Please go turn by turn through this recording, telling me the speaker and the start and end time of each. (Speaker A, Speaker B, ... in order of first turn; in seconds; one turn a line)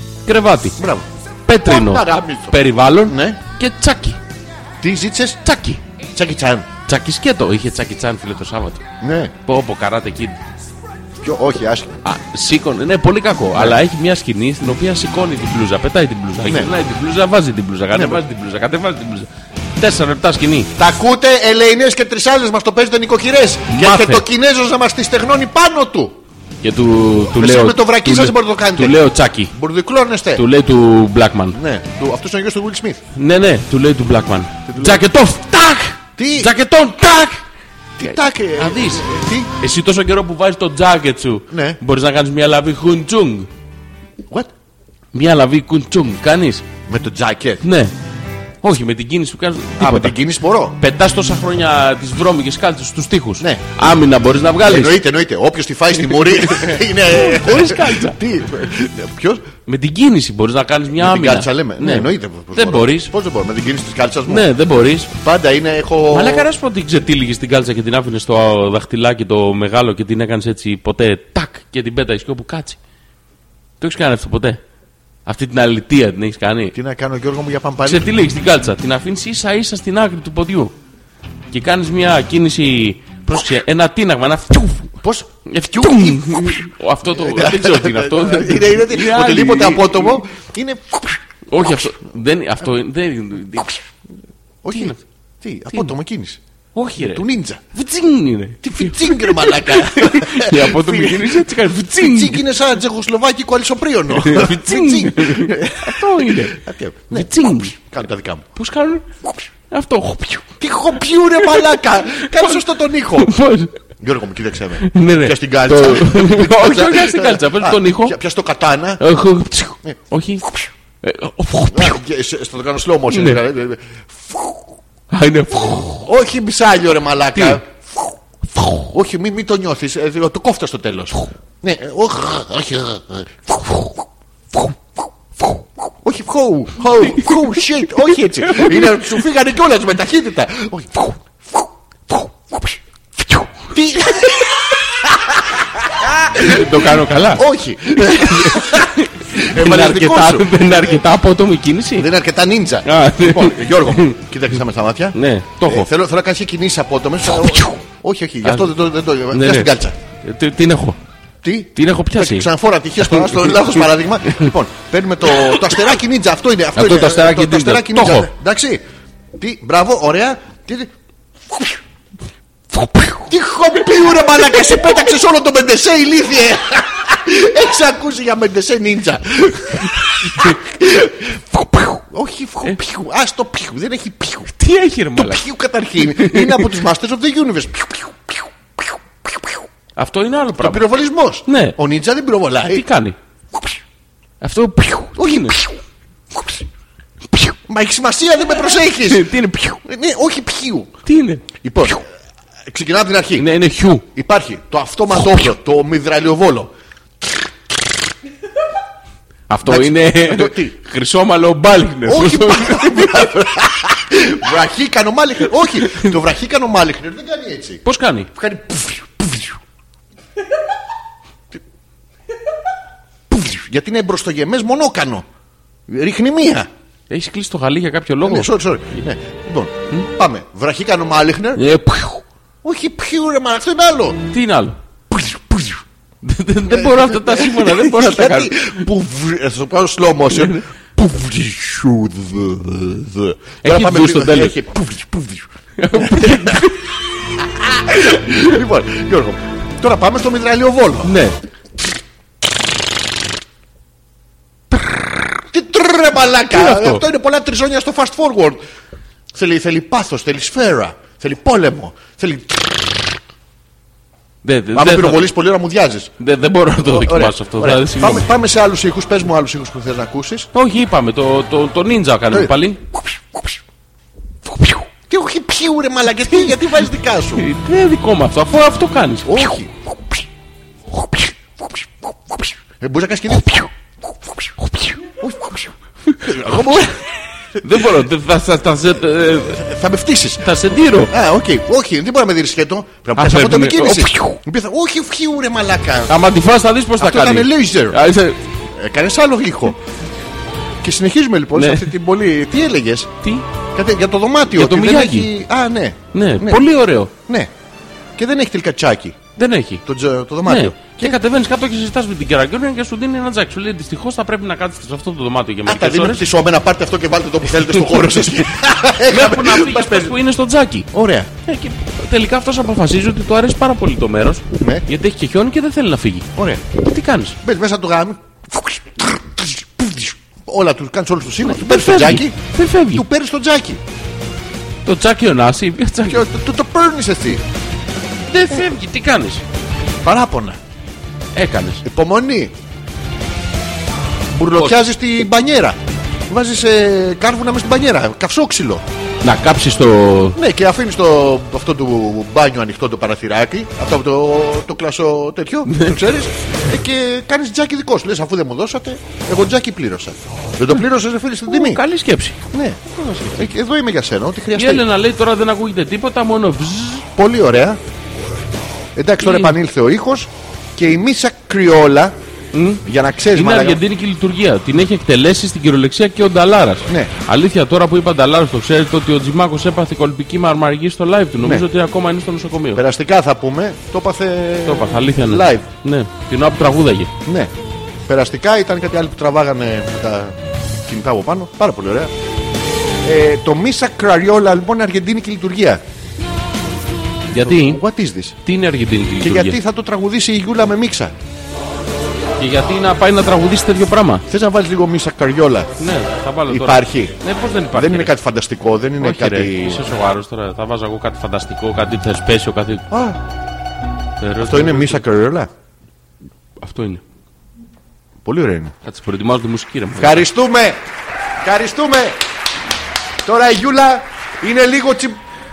Speaker A: 0.2-0.8
Speaker B: 0.8-1.1
Speaker A: 1.5-4.2
Speaker B: 1.6-3.4
Speaker B: 4.8-5.4
Speaker A: 5.4-5.8
Speaker B: 6.1-6.7
Speaker A: 6.9-8.8
Speaker B: 9.0-9.3
Speaker A: 9.4-10.4
Speaker B: 11.2-12.0
Speaker A: 12.0-20.7
Speaker B: 16.4-16.7
Speaker B: 17.9-18.2
Speaker B: 20.8-26.2
Speaker A: 23.7-24.2
Speaker A: 26.6-29.5
Speaker B: 27.3-30.4
Speaker A: 30.4-31.6
Speaker B: 31.5-33.0
Speaker A: 33.1-37.4
Speaker B: 34.7-35.0
Speaker B: 36.2-36.5
Speaker B: 38.0-39.5
Speaker A: 38.0-43.5
Speaker B: 41.5-41.8
Speaker A: 45.1-46.6
Speaker B: 46.9-47.6
Speaker A: 47.6-47.9
Speaker A: 48.6-50.2
Speaker B: 49.8-50.8
Speaker A: 50.8-55.0
Speaker B: 54.6-59.4
Speaker A: 56.3-58.2
Speaker A: 59.6-63.1
Speaker B: 61.0-64.5
Speaker A: 64.3-65.1
Speaker B: 65.1-66.5
Speaker A: 66.1-72.8
Speaker A: 73.8-74.6
Speaker A: 75.2-76.7
Speaker B: 76.7-78.1
Speaker A: 77.8-80.7
Speaker A: 81.5-84.9
Speaker B: 85.0-91.2
Speaker A: 85.5-90.2
Speaker A: 91.5-93.8
Speaker B: 94.6-96.4
Speaker A: 94.7-95.0
Speaker A: 96.7-102.4
Speaker B: 97.0-97.6
Speaker B: 98.6-108.5
Speaker A: 104.1-107.7
Speaker A: 108.5-109.0
Speaker A: 109.7-110.5
Speaker B: 110.6-113.3
Speaker A: 111.5-112.6
Speaker A: 113.1-113.8
Speaker B: 114.0-119.0
Speaker A: 114.8-118.2
Speaker A: 119.0-120.4
Speaker B: 119.8-120.7
Speaker A: 121.0-122.0
Speaker B: 121.7-124.5
Speaker A: 123.1-123.4
Speaker A: 125.1-126.0
Speaker B: 125.9-128.1
Speaker A: 127.3-127.6
Speaker B: 128.9-133.9
Speaker B: 136.0-142.8
Speaker A: 137.0-139.2
Speaker B: 143.7-151.0
Speaker A: 146.3-147.4
Speaker A: 147.9-152.1
Speaker B: 152.0-159.9
Speaker A: 152.8-154.2
Speaker A: 155.1-155.9
Speaker A: 157.3-157.8
Speaker A: 158.4-158.7
Speaker A: 159.3-159.7
Speaker A: 160.2-161.0
Speaker B: 161.4-168.8
Speaker A: 161.8-164.5
Speaker A: 165.3-165.9
Speaker A: 166.8-168.3
Speaker B: 169.4-170.9
Speaker B: 171.5-171.8
Speaker A: 172.7-173.2
Speaker B: 173.3-181.4
Speaker B: 182.0-184.5
Speaker A: 184.6-185.4
Speaker B: 185.1-189.6
Speaker A: 186.0-186.8
Speaker A: 190.0-190.8
Speaker B: 190.6-192.8
Speaker A: 191.4-191.8
Speaker A: 192.7-193.2
Speaker A: 194.4-195.6
Speaker B: 195.2-195.7
Speaker B: 197.7-200.9
Speaker A: 199.0-199.8
Speaker A: 201.1-201.5
Speaker B: 201.5-202.0
Speaker B: 202.7-203.5
Speaker A: 203.4-204.0
Speaker B: 204.1-206.7
Speaker A: 209.5-213.3
Speaker B: 209.6-210.7
Speaker B: 212.0-217.8
Speaker A: 215.8-216.1
Speaker A: 217.8-218.3
Speaker B: 218.3-219.6
Speaker B: 223.3-225.2
Speaker B: 225.9-226.7
Speaker A: 227.1-228.5
Speaker B: 228.2-231.6
Speaker A: 231.6-232.2
Speaker B: 232.6-234.2
Speaker A: 234.3-234.8
Speaker B: 235.1-235.8
Speaker A: 236.2-238.8
Speaker B: 236.7-246.7
Speaker A: 240.3-240.6
Speaker A: 243.6-244.6
Speaker A: 245.8-246.8
Speaker B: 247.4-251.1
Speaker A: 251.0-251.4
Speaker B: 254.7-258.6
Speaker A: 256.5-257.0
Speaker B: 259.3-263.1
Speaker A: 264.4-265.3
Speaker B: 264.7-266.1
Speaker A: 266.2-268.3
Speaker B: 266.8-270.5
Speaker A: 270.5-272.8
Speaker B: 275.1-277.4
Speaker A: 277.4-279.5
Speaker B: 279.2-280.1
Speaker B: 282.8-283.7
Speaker B: 285.1-287.0
Speaker A: 286.1-286.9
Speaker A: 287.6-289.6
Speaker B: 289.4-290.4
Speaker A: 290.4-291.1
Speaker B: 291.1-296.1
Speaker A: 293.2-294.4
Speaker A: 296.1-298.4
Speaker B: 297.0-298.0
Speaker B: 298.7-299.8
Speaker B: 300.8-303.1
Speaker A: 301.6-301.9
Speaker B: 303.7-307.5
Speaker A: 304.5-305.3
Speaker A: 306.1-307.1
Speaker B: 308.1-309.2
Speaker A: 309.4-309.8
Speaker B: 309.8-311.2
Speaker A: 310.4-316.2
Speaker B: 315.6-320.1
Speaker A: 317.6-318.4
Speaker A: 319.1-320.9
Speaker B: 320.9-321.3
Speaker A: 321.4-327.4
Speaker B: 324.5-324.8
Speaker B: 326.4-326.6
Speaker B: 327.4-332.4
Speaker A: 331.4-333.0
Speaker B: 332.9-333.8
Speaker A: 334.9-336.3
Speaker B: 336.0-337.4
Speaker A: 338.3-339.4
Speaker B: 340.0-340.6
Speaker A: 341.3-341.8
Speaker B: 341.8-342.5
Speaker B: 344.3-345.8
Speaker A: 344.5-344.8
Speaker B: 346.3-348.8
Speaker A: 349.2-350.4
Speaker B: 350.4-361.8
Speaker A: 355.7-355.9
Speaker A: 361.5-362.4
Speaker B: 362.5-364.8
Speaker A: 364.6-367.1
Speaker B: 367.1-367.8
Speaker B: 368.9-372.1
Speaker A: 369.2-369.5
Speaker A: 372.5-372.8
Speaker B: 372.8-373.8
Speaker A: 373.3-382.8
Speaker B: 376.9-377.1
Speaker B: 382.7-385.7
Speaker A: 384.6-387.1
Speaker B: 387.2-387.5
Speaker B: 388.1-392.1
Speaker B: 393.0-395.8
Speaker A: 397.3-397.8
Speaker B: 397.4-398.4
Speaker A: 398.4-399.6
Speaker B: 399.2-401.1
Speaker A: 402.4-404.2
Speaker B: 404.3-405.7
Speaker A: 405.8-408.1
Speaker B: 406.5-407.1
Speaker B: 407.7-409.9
Speaker A: 409.0-412.8
Speaker B: 412.9-413.2
Speaker A: 414.2-415.0
Speaker B: 414.5-415.5
Speaker A: 416.6-417.0
Speaker B: 418.2-418.7
Speaker A: 418.8-420.2
Speaker B: 420.0-420.8
Speaker B: 421.4-422.2
Speaker B: 423.2-425.2